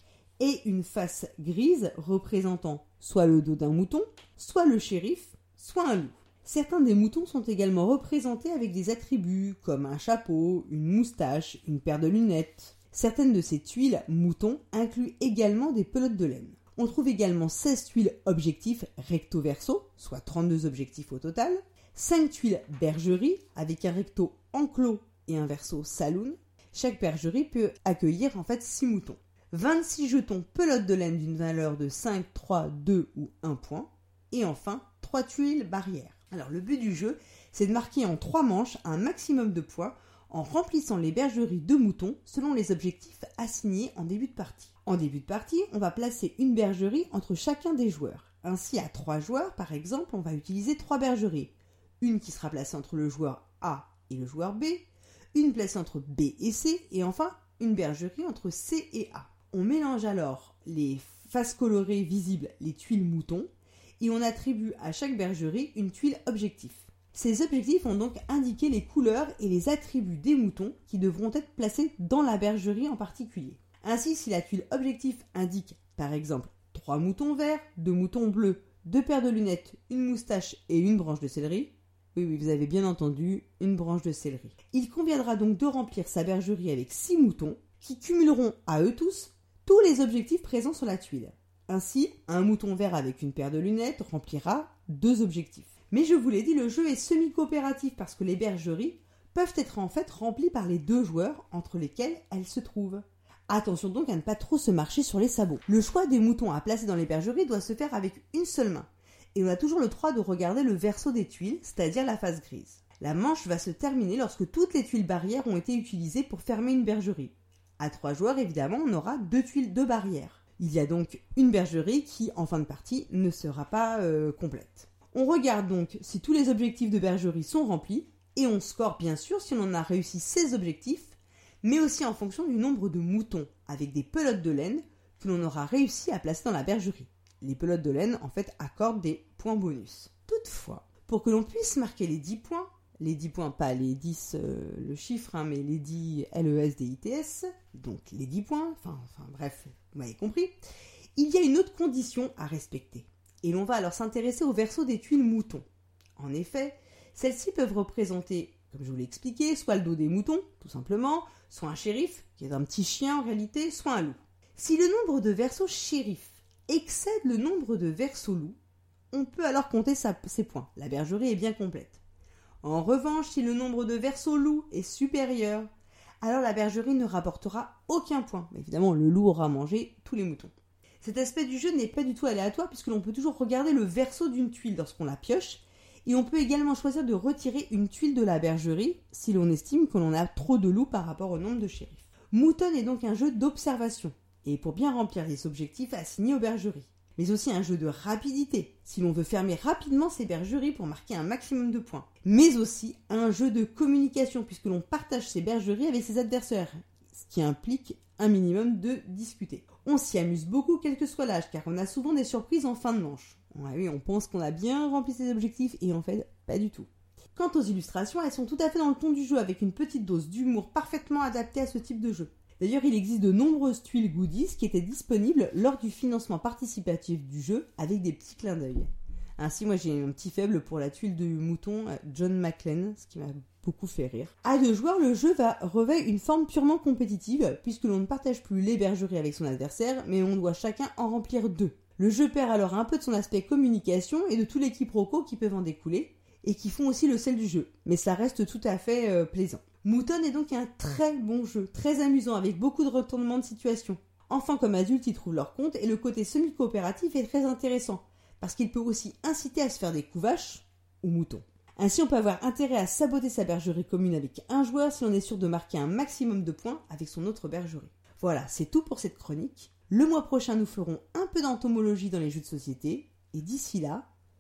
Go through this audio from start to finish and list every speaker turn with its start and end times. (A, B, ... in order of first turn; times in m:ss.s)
0:00.4-2:30.6 A
2:31.2-2:35.6 A
2:36.2-2:48.6 A
2:49.1-2:52.0 A
2:52.6-2:55.7 A
2:56.2-4:34.1 A